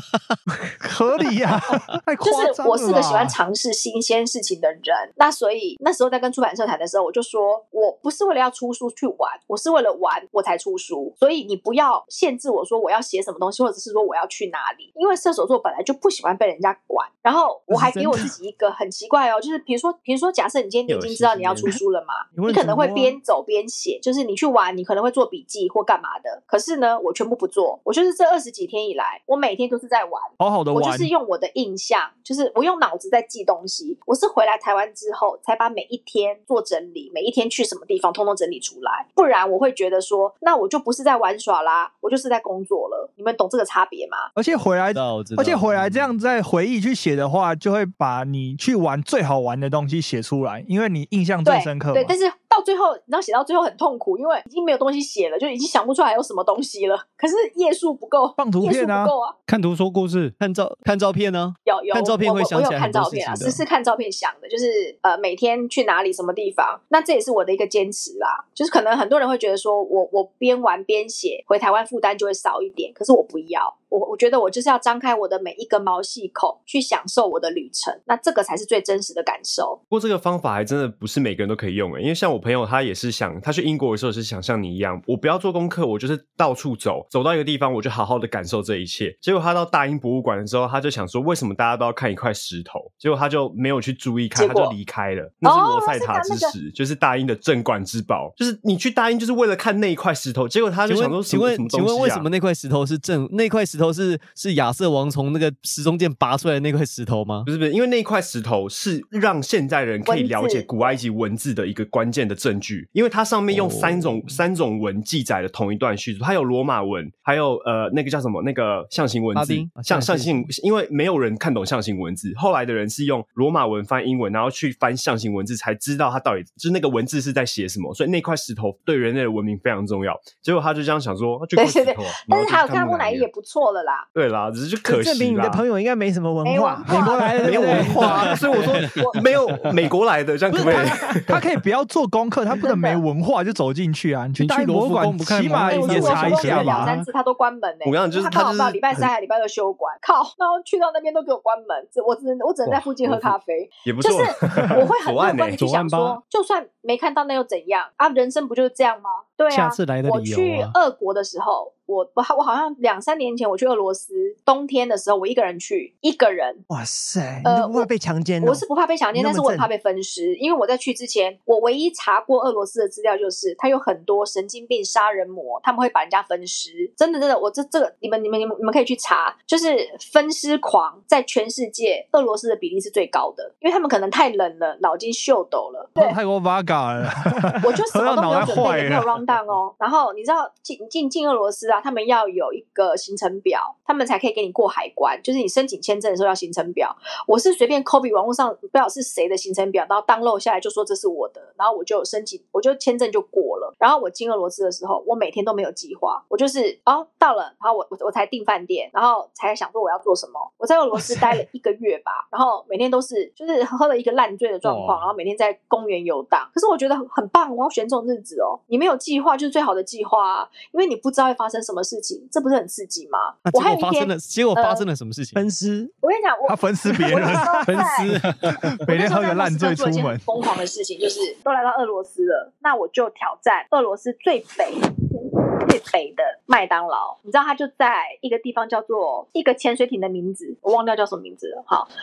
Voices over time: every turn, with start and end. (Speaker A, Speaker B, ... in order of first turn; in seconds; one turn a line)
Speaker A: 0.8-3.4
Speaker B: 2.2-44.3
Speaker C: 17.7-18.1
Speaker D: 20.9-21.8
Speaker C: 22.3-23.2
Speaker A: 30.4-31.1
Speaker A: 44.3-52.1
Speaker E: 44.9-46.1
Speaker B: 51.4-59.3
Speaker A: 58.4-59.1
Speaker F: 59.5-60.3
Speaker E: 60.4-63.6
Speaker B: 61.6-79.8
Speaker D: 79.9-102.2
Speaker B: 94.3-94.7
Speaker B: 95.4-96.5
Speaker E: 100.9-107.5
Speaker D: 107.5-133.3
Speaker B: 110.0-111.0
Speaker E: 113.5-114.3
Speaker E: 119.3-120.5
Speaker B: 131.6-134.1
Speaker D: 134.1-135.6
Speaker C: 134.8-138.4
Speaker B: 136.4-137.5
Speaker A: 136.9-138.4
Speaker D: 137.4-141.4
Speaker B: 138.8-139.2
Speaker A: 140.5-146.9
Speaker B: 142.6-143.0
Speaker F: 144.4-147.1
Speaker B: 145.6-166.6
Speaker D: 147.8-149.1
Speaker F: 153.0-153.3
Speaker D: 153.8-155.7
Speaker F: 155.4-156.2
Speaker F: 159.5-160.7
Speaker C: 166.7-169.7
Speaker B: 167.4-167.9
Speaker B: 168.4-186.2
Speaker A: 186.0-189.2
Speaker B: 187.6-224.9
Speaker E: 223.5-225.4
Speaker C: 225.3-225.9
Speaker B: 226.0-228.1
Speaker A: 226.4-227.9
Speaker F: 227.7-228.3
Speaker A: 228.4-230.2
Speaker B: 228.8-241.9